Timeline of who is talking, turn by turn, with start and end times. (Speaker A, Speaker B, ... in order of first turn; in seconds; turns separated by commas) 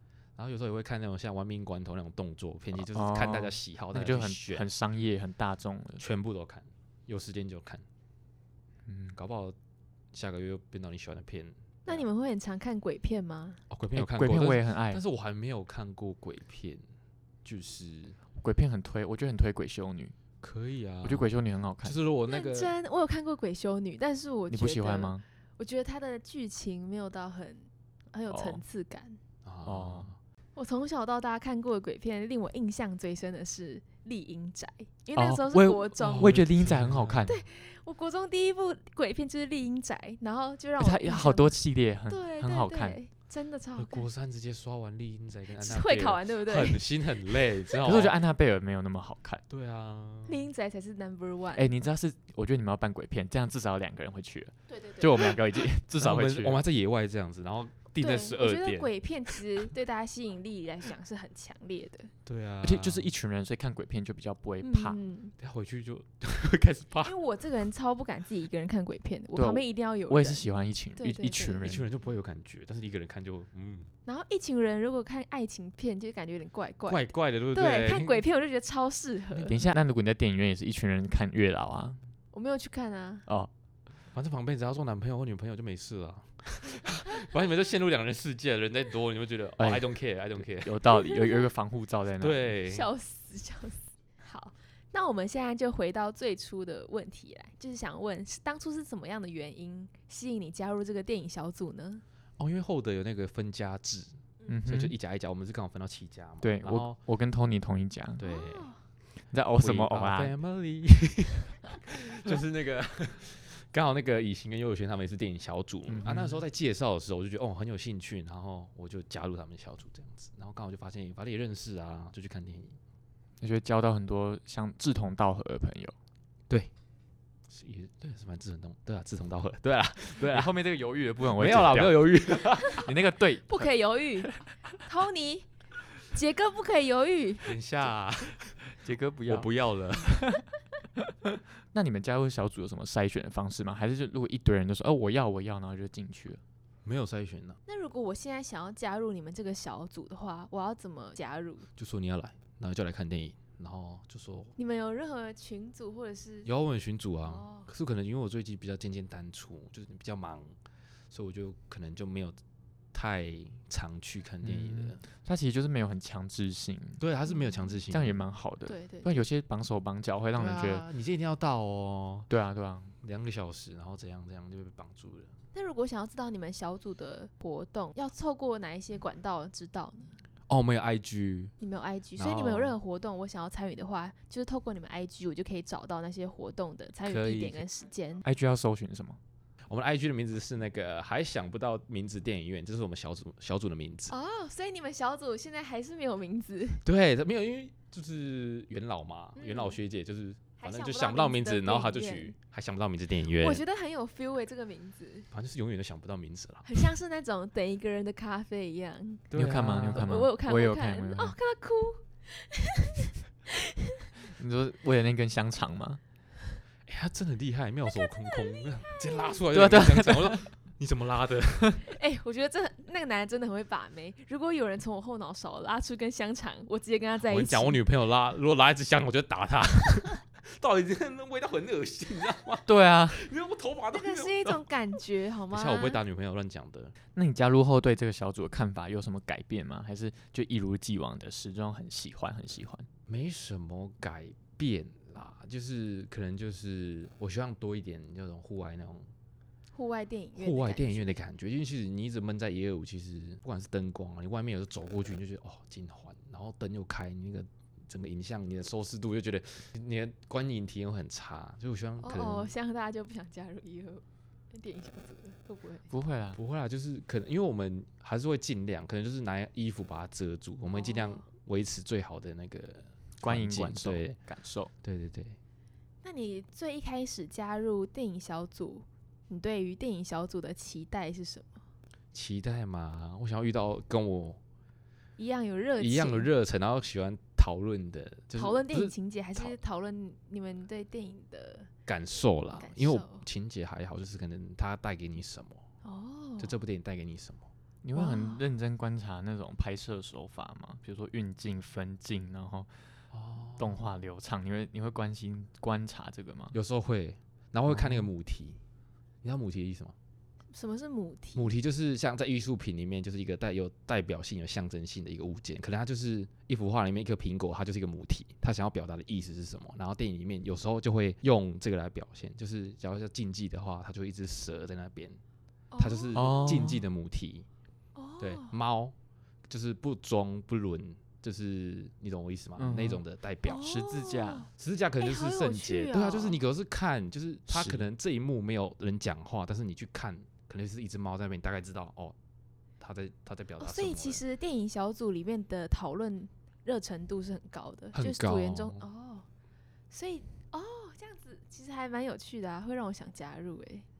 Speaker A: 0.4-4.7, Speaker B: 2.8-6.0, Speaker A: 6.0-7.8, Speaker B: 8.8-9.2, Speaker A: 9.1-9.6, Speaker A: 10.1-12.1, Speaker C: 11.8-13.6, Speaker A: 13.7-16.8, Speaker B: 13.9-15.0, Speaker A: 17.4-18.2, Speaker B: 18.4-20.1, Speaker A: 20.4-21.3, Speaker B: 21.0-22.0, Speaker A: 21.8-22.7, Speaker C: 22.3-29.2, Speaker B: 24.5-25.2, Speaker B: 28.3-28.6, Speaker A: 29.4-30.2, Speaker B: 29.6-30.1, Speaker C: 30.6-36.4, Speaker B: 35.1-37.4, Speaker A: 36.0-37.4, Speaker C: 37.3-41.6, Speaker B: 40.8-43.0, Speaker C: 42.1-44.0, Speaker A: 43.8-48.2, Speaker C: 45.6-47.7, Speaker B: 47.8-49.4, Speaker A: 49.5-50.4, Speaker C: 50.2-51.7, Speaker B: 51.5-56.6, Speaker C: 54.7-55.3, Speaker A: 55.9-59.4, Speaker C: 58.0-62.1, Speaker A: 62.2-63.1, Speaker B: 62.6-65.0, Speaker C: 64.6-65.3, Speaker A: 65.4-67.2, Speaker C: 67.0-70.4, Speaker B: 69.3-71.8, Speaker C: 71.0-71.6, Speaker A: 71.6-73.9, Speaker C: 74.0-79.6, Speaker A: 76.9-78.2, Speaker B: 79.4-82.0, Speaker C: 82.3-83.2, Speaker A: 84.1-90.8, Speaker B: 89.6-92.5, Speaker C: 90.9-91.5, Speaker A: 92.2-92.9, Speaker C: 92.7-102.0, Speaker A: 102.4-107.0, Speaker B: 104.5-104.9, Speaker B: 106.4-108.2, Speaker A: 108.2-108.7, Speaker C: 108.2-108.8, Speaker B: 109.3-110.3, Speaker A: 109.6-122.8, Speaker B: 115.9-116.4, Speaker B: 123.4-125.9, Speaker A: 127.5-130.5, Speaker B: 130.2-134.4, Speaker A: 131.3-132.9, Speaker C: 133.5-134.3, Speaker C: 134.8-135.5, Speaker C: 136.1-137.5, Speaker A: 137.4-138.6, Speaker B: 138.8-140.4, Speaker A: 139.3-140.3, Speaker B: 141.0-146.4, Speaker A: 146.8-147.6, Speaker C: 147.7-151.7, Speaker A: 151.8-154.5, Speaker C: 154.6-156.5, Speaker A: 156.4-160.5, Speaker C: 157.2-157.7, Speaker A: 161.1-162.4, Speaker A: 162.9-165.0, Speaker B: 164.4-167.0, Speaker A: 167.0-168.2, Speaker B: 167.9-170.8, Speaker C: 168.7-169.1, Speaker A: 170.3-172.3, Speaker B: 172.3-172.9, Speaker A: 173.0-175.3, Speaker C: 175.5-180.1, Speaker A: 180.5-181.5, Speaker C: 181.6-188.2, Speaker A: 182.2-182.8, Speaker A: 187.0-187.6, Speaker B: 188.2-189.2, Speaker A: 189.7-194.1, Speaker C: 194.1-196.8, Speaker A: 196.8-203.6, Speaker C: 199.4-199.8, Speaker C: 200.6-202.3, Speaker C: 203.4-205.3, Speaker A: 205.3-206.8, Speaker C: 206.7-209.3, Speaker A: 209.3-210.3, Speaker B: 209.3-211.3, Speaker C: 209.9-213.9, Speaker B: 214.3-216.0, Speaker A: 216.9-221.8, Speaker C: 218.0-219.3, Speaker B: 219.5-220.4, Speaker C: 221.9-227.8, Speaker A: 227.2-234.6, Speaker B: 232.7-233.2, Speaker C: 233.9-236.0, Speaker A: 235.5-236.9, Speaker B: 237.1-242.9, Speaker A: 243.1-249.1, Speaker C: 249.7-251.2, Speaker A: 250.3-262.5, Speaker C: 262.0-265.9, Speaker B: 265.9-266.4, Speaker A: 266.4-274.2, Speaker C: 270.7-271.2, Speaker B: 273.2-274.7, Speaker A: 274.8-275.4, Speaker C: 276.0-281.6, Speaker A: 282.1-284.4, Speaker C: 285.2-286.3, Speaker A: 285.8-289.5, Speaker C: 288.3-291.7, Speaker A: 291.9-295.6, Speaker C: 292.5-293.2, Speaker C: 295.8-296.6, Speaker A: 296.4-297.5, Speaker B: 297.8-302.7, Speaker C: 297.9-298.4, Speaker A: 303.1-303.8, Speaker B: 303.6-306.5, Speaker A: 306.5-308.6, Speaker B: 307.7-308.1, Speaker A: 309.2-309.9, Speaker C: 310.5-311.5, Speaker A: 311.3-325.2, Speaker C: 325.7-326.5, Speaker A: 325.8-327.5, Speaker B: 326.1-326.8, Speaker C: 327.9-328.6, Speaker A: 328.2-328.9, Speaker A: 329.5-333.7, Speaker B: 332.6-333.0, Speaker C: 333.4-336.4, Speaker B: 333.6-334.5, Speaker A: 334.6-342.1, Speaker B: 337.5-337.9, Speaker A: 342.8-344.2, Speaker C: 343.6-349.2, Speaker A: 347.9-348.8, Speaker C: 349.9-353.9